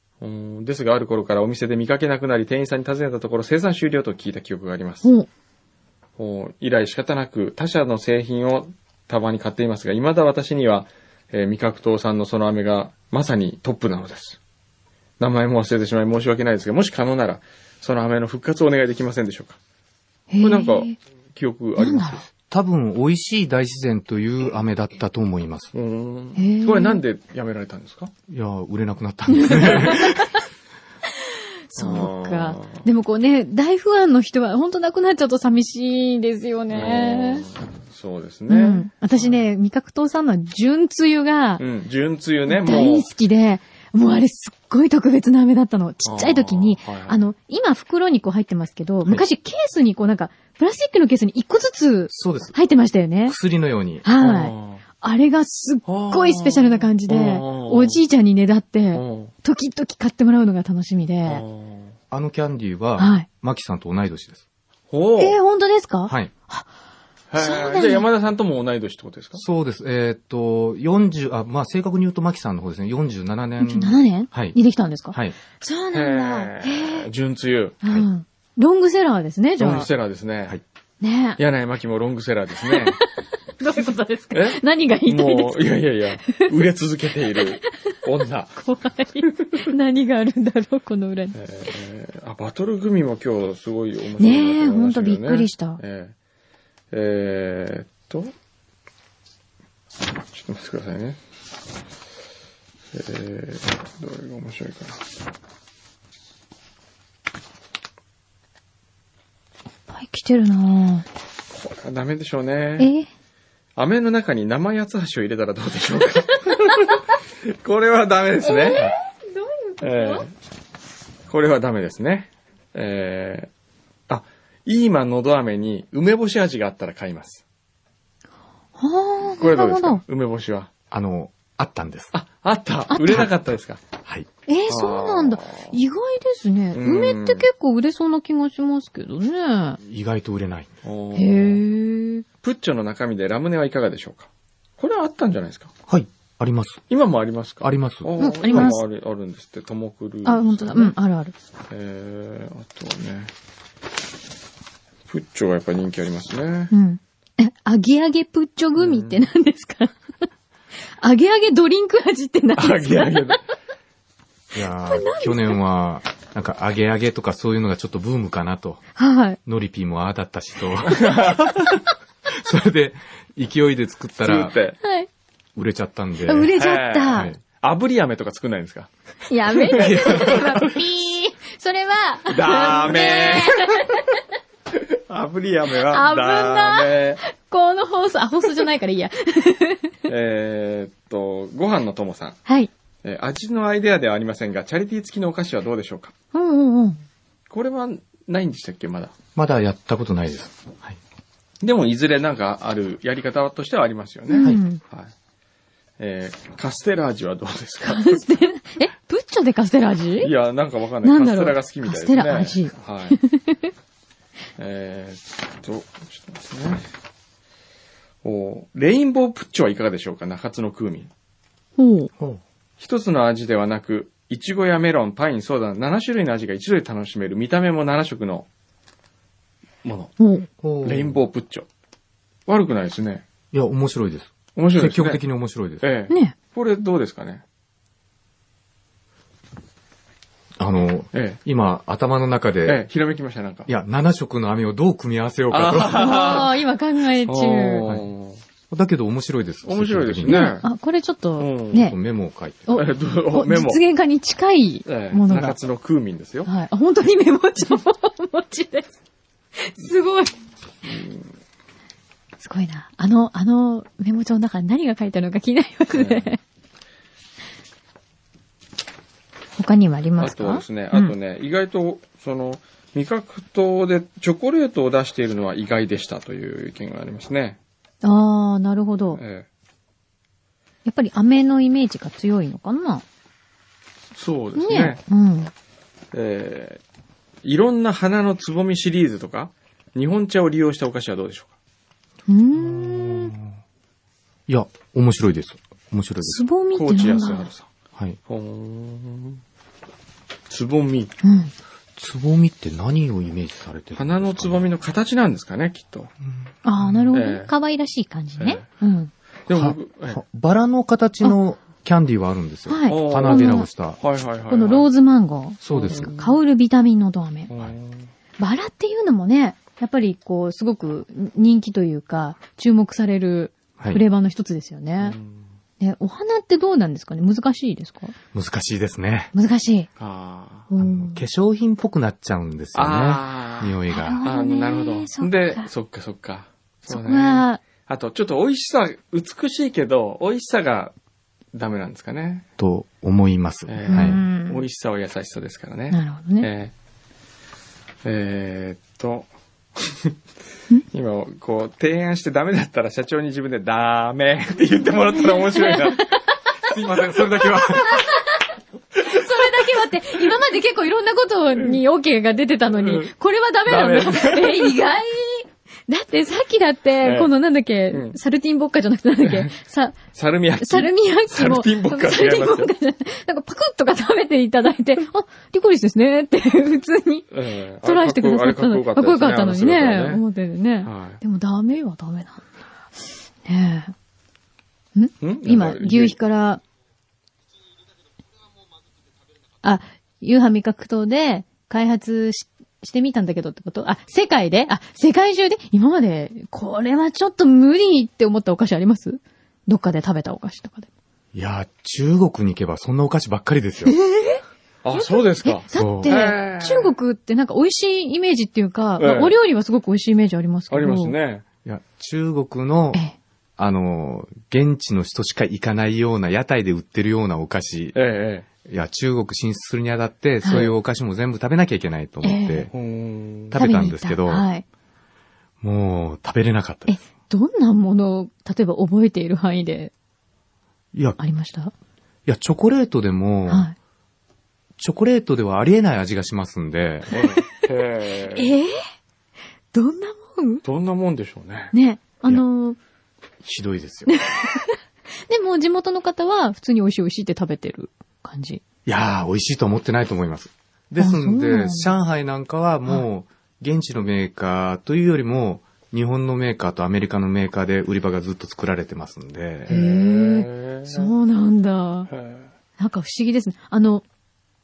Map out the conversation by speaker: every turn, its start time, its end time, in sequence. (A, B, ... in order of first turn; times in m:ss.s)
0:00.2-0:05.1 A
0:06.2-0:14.4 A
0:15.2-0:19.6 A
0:20.3-0:21.0 B
0:20.4-0:22.2 A
0:21.8-0:22.2 B
0:22.5-0:25.7 C
0:25.7-0:28.1 A
0:26.4-0:27.0 B
0:28.3-0:30.3 C
0:29.3-0:30.4 B
0:29.5-0:30.0 A
0:31.2-0:37.5 B
0:31.8-0:32.8 A
0:36.7-0:39.4 A
0:38.5-0:41.6 B
0:41.6-0:43.1 A
0:42.5-0:53.4 B
0:46.0-0:47.2 A
0:52.1-0:52.6 C
0:53.3-0:54.0 C
0:54.0-1:01.4 B
0:54.2-0:54.8 A
0:55.9-0:58.0 A
0:58.9-0:59.3 A
1:01.2-1:01.9 A
1:02.1-1:04.4 C
1:03.0-1:03.3 B
1:04.9-1:05.4 A
1:05.2-1:06.7 B
1:07.3-1:09.4 A
1:07.4-1:08.1 B
1:09.4-1:14.6 C
1:13.6-1:17.0 B
1:15.9-1:17.9 A
1:17.8-1:19.9 B
1:19.6-1:20.6 A
1:21.0-1:21.4 B
1:21.4-1:23.0 A
1:22.7-1:23.0 B
1:23.6-1:25.7 B
1:24.3-1:28.6 A
1:28.6-1:31.4 B
1:31.3-1:36.1 A
1:34.2-1:35.8 B
1:36.9-1:38.3 A
1:40.3-1:41.2 A
1:42.9-1:45.0 A
1:49.9-1:51.1 B
1:51.6-1:52.9 A
1:52.8-1:53.1 B
1:53.8-1:58.9 A
1:58.4-2:00.3 B
1:59.8-2:00.3 A
2:01.3-2:03.5 A
2:04.1-2:07.4 A
2:08.8-2:10.0 B
2:09.4-2:10.7 A
2:10.9-2:12.1 C
2:12.1-2:13.8 A
2:12.9-2:13.2 B
2:14.5-2:19.8 B
2:14.7-2:15.8 A
2:16.8-2:17.5 A
2:19.8-2:20.7 C
2:20.8-2:21.6 A
2:21.2-2:22.2 B
2:22.4-2:25.7 A
2:25.9-2:26.8 C
2:26.9-2:30.9 A
2:27.6-2:28.7 C
2:28.2-2:28.8 B
2:30.2-2:31.3 B
2:31.7-2:33.3 A
2:35.1-2:36.7 A
2:36.7-2:40.0 B
2:38.8-2:39.3 A
2:41.0-2:43.4 B
2:42.6-2:43.4 A
2:44.5-2:48.8 C
2:44.8-2:45.6 B
2:49.0-2:49.4 B
2:49.4-2:51.8 C
2:50.9-2:51.7 A
2:52.3-2:54.6 C
2:54.2-2:54.8 A
2:54.8-2:55.1 B
2:55.6-2:56.5 C
2:56.3-2:57.3 B
2:56.6-2:58.9 A
2:59.3-3:04.2 B
2:59.6-3:00.8 A
2:59.8-3:00.4 C
3:02.3-3:03.7 A
3:04.9-3:07.2 A
3:05.9-3:09.9 B
3:10.1-3:12.4 A
3:12.5-3:12.7 B
3:13.0-3:16.1 A
3:16.3-3:17.0 B
3:17.5-3:19.1 A
3:19.4-3:21.0 C
3:21.6-3:25.1 A
3:24.3-3:24.8 B
3:26.0-3:28.2 A
3:27.8-3:30.3 B
3:30.2-3:33.2 A
3:31.0-3:33.7 B
3:34.6-3:36.8 A
3:38.2-3:41.1 A
3:41.8-3:42.1 B
3:42.8-3:48.5 A
3:49.8-3:50.1 A
3:50.2-3:50.5 B
3:50.6-3:51.2 C
3:50.8-3:51.7 A
3:52.5-3:53.2 A
3:53.5-3:55.8 C
3:54.6-3:55.2 A
3:55.8-3:57.4 A
3:56.1-3:56.4 B
4:00.6-4:02.8 C
4:01.1-4:01.4 A
4:02.6-4:03.7 A
4:03.7-4:06.1 C
4:05.5-4:06.6 A
4:05.9-4:07.9 B
4:07.3-4:08.4 A
4:08.7-4:10.5 C
4:09.6-4:10.7 A
4:10.3-4:12.0 B
4:11.4-4:11.9 A
4:11.8-4:12.6 C
4:12.7-4:15.6 B
4:12.7-4:13.8 A
4:14.9-4:16.5 A
4:16.5-4:18.9 B
4:19.6-4:20.3 B
4:20.8-4:21.3 A
4:22.4-4:26.4 B
4:26.0-4:26.2 A
4:29.6-4:31.1 B
4:30.2-4:37.6 A
4:38.0-4:39.2 B
4:39.2-4:39.5 A
4:40.8-4:43.0 B
4:44.2-4:45.0 A
4:44.6-4:45.5 B
4:46.1-4:46.8 A
4:47.4-4:51.5 A
4:52.3-4:53.4 B
4:52.6-4:53.5 C
4:54.5-4:56.4 C
4:56.2-4:57.5 B
4:56.7-4:57.7 A
4:58.3-4:59.4 A
5:00.5-5:01.2 A
5:01.2-5:01.5 B
5:02.0-5:04.7 C
5:04.0-5:06.1 A
5:06.6-5:09.1 B
5:06.8-5:07.1 C
5:07.1-5:07.5 A
5:08.4-5:08.6 A
5:09.5-5:10.2 A
5:09.5-5:14.0 C
5:12.7-5:13.7 B
5:12.9-5:14.9 A
5:14.5-5:17.5 B
5:15.6-5:16.2 C
5:15.9-5:16.1 A
5:17.5-5:18.1 A
5:18.4-5:25.2 B
5:25.0-5:25.5 A
5:25.8-5:28.2 B
5:28.3-5:29.3 C
5:29.3-5:29.9 B
5:30.0-5:30.7 A
5:30.7-5:31.2 B
5:30.8-5:34.2 C
5:32.8-5:40.9 A
5:33.9-5:35.7 B
5:36.9-5:37.6 B
5:41.5-5:42.4 A
5:42.6-5:44.2 C
5:43.7-5:46.7 A
5:43.9-5:44.6 B
5:45.9-5:46.5 B
5:48.0-5:50.1 A
5:50.9-5:56.0 A
5:55.2-5:56.7 B
5:56.6-5:58.1 A
5:57.6-6:10.0 B
6:02.8-6:03.1 A
6:03.7-6:04.8 A
6:07.0-6:07.3 A
6:07.9-6:08.2 A
6:09.2-6:09.5 A
6:10.1-6:12.7 A
6:10.6-6:22.4 B
6:17.3-6:20.2 A
6:20.8-6:21.2 A
6:23.4-6:23.9 B
6:25.0-6:26.6 B
6:25.2-6:26.2 A
6:29.6-6:40.9 B
6:41.3-6:44.0 C
6:43.9-6:51.2 B
6:44.8-6:46.9 A
6:45.7-6:46.1 C
6:49.0-6:49.4 A
6:50.7-6:51.4 A
6:51.6-6:53.0 C
6:53.6-6:58.0 C
6:57.9-6:58.5 A
6:58.6-7:02.7 C
7:00.4-7:00.7 B
7:02.2-7:02.7 B
7:02.7-7:03.6 A
7:03.5-7:04.5 C
7:03.6-7:04.6 B
7:05.6-7:07.0 C
7:06.9-7:09.9 B
7:10.9-7:11.2 C
7:11.2-7:11.7 B
7:12.3-7:13.7 C
7:13.5-7:13.8 B
7:14.8-7:17.1 C
7:17.1-7:18.6 A
7:17.2-7:17.7 B
7:18.3-7:18.8 B
7:19.7-7:20.6 B
7:20.6-7:21.7 A
7:21.7-7:22.8 B
7:23.4-7:24.1 C
7:24.1-7:28.6 B
7:28.9-7:39.8 C
7:31.0-7:31.9 B
7:39.7-7:41.1 A
7:39.7-7:42.1 B
7:42.1-7:42.5 A
7:42.8-7:44.0 B